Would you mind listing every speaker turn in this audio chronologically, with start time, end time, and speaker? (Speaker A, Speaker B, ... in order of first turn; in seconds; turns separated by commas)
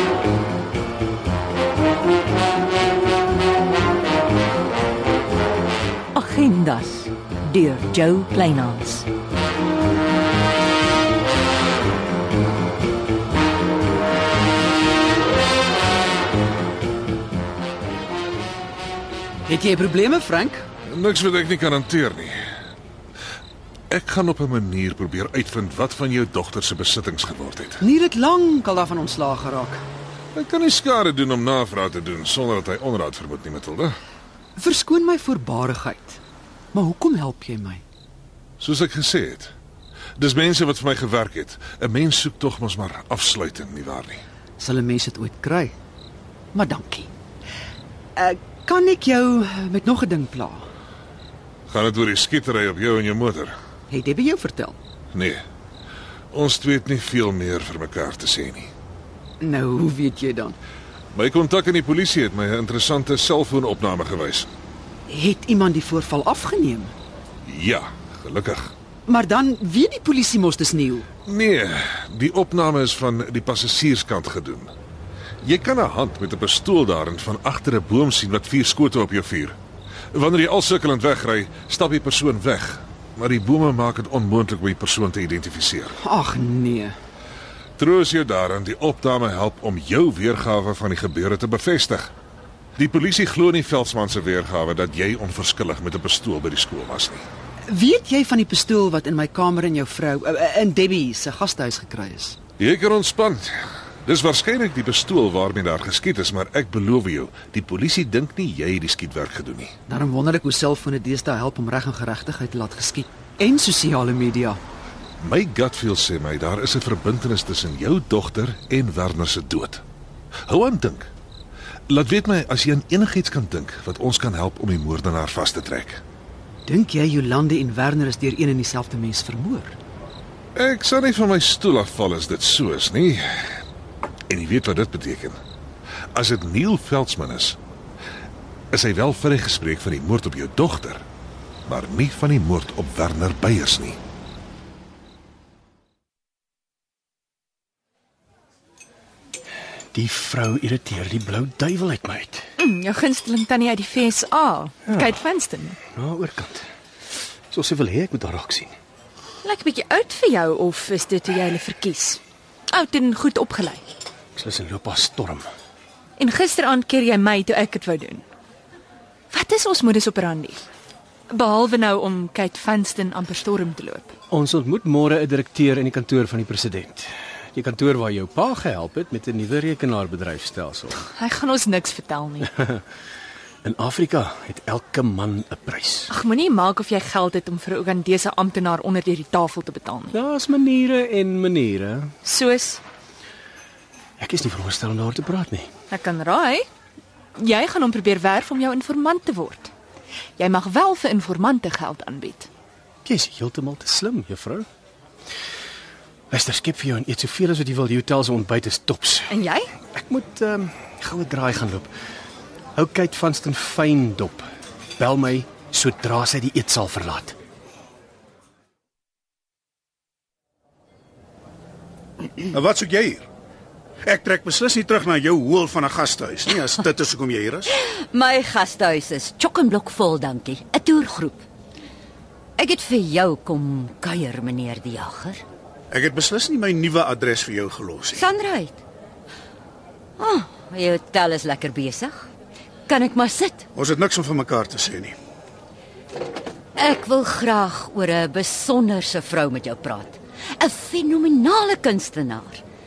Speaker A: 6.2-9.1, Speaker B: 19.5-20.6, Speaker C: 20.9-22.3, Speaker C: 23.9-27.8, Speaker B: 27.8-29.8, Speaker C: 30.4-34.0, Speaker B: 34.6-36.2, Speaker B: 36.7-37.8, Speaker C: 38.6-39.5, Speaker C: 40.2-44.2, Speaker B: 44.6-45.7, Speaker B: 46.5-47.1, Speaker B: 48.2-50.7, Speaker C: 51.7-53.5, Speaker B: 53.9-54.8, Speaker C: 55.1-55.4, Speaker C: 56.3-58.7, Speaker B: 59.4-60.6, Speaker C: 61.1-64.5, Speaker B: 65.1-66.9, Speaker C: 67.5-68.7, Speaker B: 69.1-71.1, Speaker C: 71.3-74.7, Speaker C: 75.4-79.6, Speaker C: 80.1-85.9, Speaker B: 86.0-87.0, Speaker C: 87.8-92.1, Speaker C: 92.8-97.2, Speaker B: 97.7-102.4, Speaker C: 102.6-103.5, Speaker C: 104.0-109.7, Speaker B: 109.9-114.6, Speaker C: 115.2-119.8, Speaker C: 120.5-121.1, Speaker C: 121.9-126.0, Speaker B: 126.7-129.8, Speaker C: 130.6-133.2, Speaker C: 134.3-135.4, Speaker C: 136.2-137.6, Speaker C: 138.7-141.0, Speaker C: 141.7-144.0, Speaker D: 149.9-152.4, Speaker E: 152.6-155.8, Speaker D: 155.9-156.7, Speaker D: 157.5-158.7, Speaker E: 159.4-163.8, Speaker D: 164.3-165.5, Speaker E: 166.2-168.2, Speaker E: 169.3-170.6, Speaker E: 171.3-174.1, Speaker D: 174.3-181.0, Speaker E: 181.1-182.5, Speaker D: 182.6-182.8, Speaker D: 183.6-186.1, Speaker E: 186.1-190.2, Speaker D: 190.1-192.1, Speaker E: 192.2-192.8, Speaker D: 194.2-195.7, Speaker E: 195.9-196.7, Speaker E: 197.4-199.7, Speaker E: 200.4-202.5, Speaker D: 203.1-204.7, Speaker D: 206.3-209.3, Speaker E: 209.3-209.7, Speaker D: 209.9-211.9, Speaker D: 212.8-214.5, Speaker D: 215.0-217.4, Speaker F: 222.5-223.3, Speaker F: 224.1-227.7, Speaker G: 227.7-231.4, Speaker G: 232.6-235.4, Speaker F: 235.9-238.2, Speaker G: 238.1-238.8, Speaker G: 240.2-242.3, Speaker G: 242.9-243.7, Speaker F: 243.8-245.2, Speaker G: 246.8-252.6